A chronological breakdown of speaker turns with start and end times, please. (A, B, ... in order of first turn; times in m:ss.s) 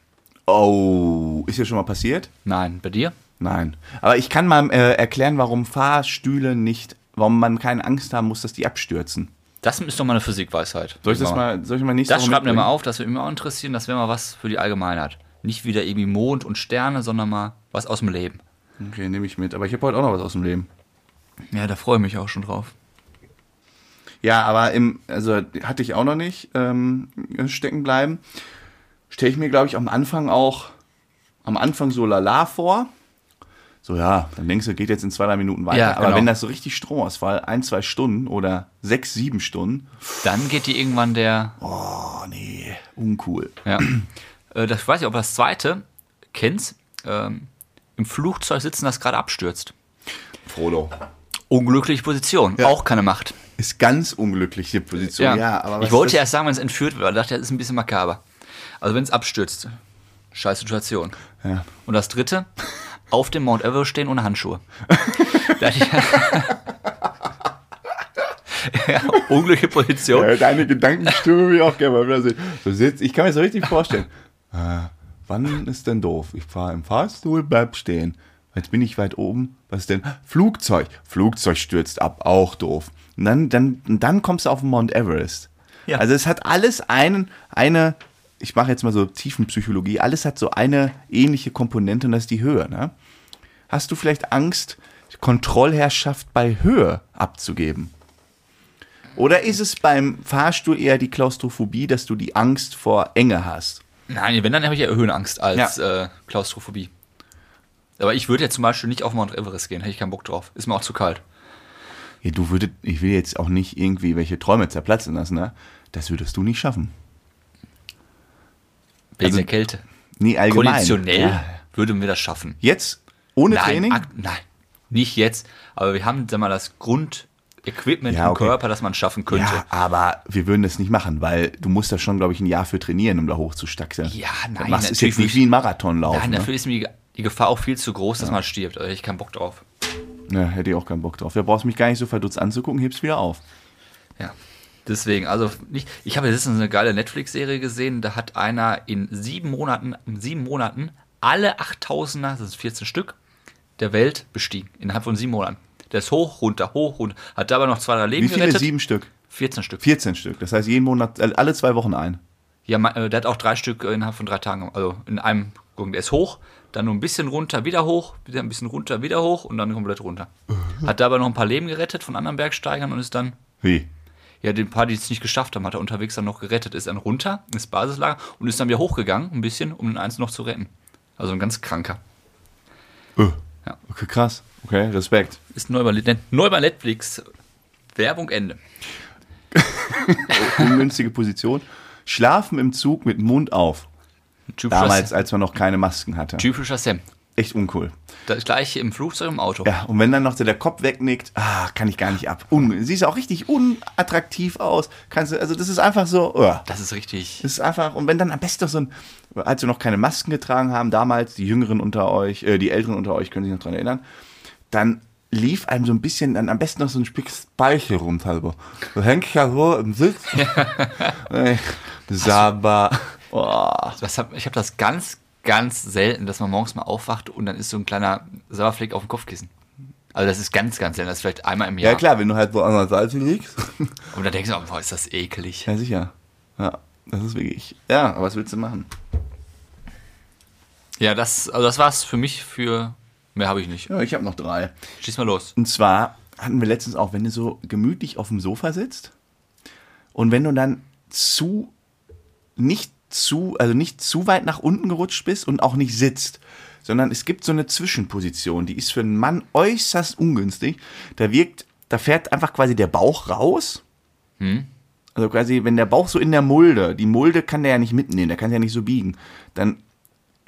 0:00.5-0:02.3 A
0:02.4-0:03.2 B
0:03.4-0:09.3 A
0:09.6-0:11.4 B
0:11.0-0:12.7 A
0:12.1-0:18.4 B
0:18.8-0:20.7 A
0:21.5-0:22.7 B
0:24.2-0:28.2 A
0:29.1-0:30.7 A
0:31.4-0:32.9 A
0:33.8-0:40.0 A
0:35.7-0:36.3 B
0:40.2-0:41.6 B
0:41.6-0:44.1 A
0:44.5-0:49.7 B
0:50.5-0:50.9 A
0:51.5-0:53.4 B
0:53.6-0:56.2 A
0:55.2-0:58.2 B
0:58.8-0:59.8 B
1:00.3-1:01.2 B
1:01.4-1:01.7 A
1:01.8-1:02.5 B
1:03.1-1:04.6 B
1:04.9-1:05.6 A
1:05.2-1:06.6 B
1:08.5-1:10.4 B
1:10.1-1:32.9 A
1:33.7-1:37.9 A
1:39.2-1:43.8 A
1:44.1-1:46.9 B
1:48.0-1:51.2 B
1:52.2-1:56.9 A
1:59.2-1:59.8 B
1:59.2-1:59.5 A
2:00.2-2:01.6 A
2:00.5-2:02.6 B
2:02.6-2:04.1 A
2:03.5-2:09.6 B
2:08.1-2:08.6 A
2:09.3-2:16.5 A
2:14.0-2:15.4 B
2:16.1-2:19.6 B
2:20.3-2:23.4 A
2:24.2-2:33.2 B
2:33.8-2:38.7 B
2:38.2-2:39.1 A
2:39.2-2:39.8 B
2:39.8-2:42.2 A
2:42.7-2:50.3 B
2:50.8-2:53.4 B
2:53.6-2:53.9 A
2:54.4-3:02.0 B
3:03.2-3:05.4 A
3:05.5-3:07.3 B
3:07.9-3:08.6 B
3:09.5-3:13.9 A
3:10.4-3:10.7 B
3:14.5-3:15.1 B
3:14.7-3:16.5 A
3:16.4-3:17.0 B
3:17.4-3:17.9 A
3:18.3-3:19.7 B
3:19.6-3:26.7 A
3:26.7-3:27.4 B
3:27.4-3:34.0 A
3:34.7-3:44.0 A
3:40.4-3:41.2 B
3:44.0-3:49.5 B
3:50.1-3:52.0 B
3:51.8-3:54.0 A
3:54.1-3:55.7 B
3:55.7-3:58.9 A
4:01.0-4:03.9 B
4:03.9-4:04.8 A
4:05.0-4:05.5 B
4:05.6-4:09.1 A
4:10.2-4:11.7 A
4:12.6-4:23.8 A
4:24.4-4:24.7 B
4:25.2-4:29.8 A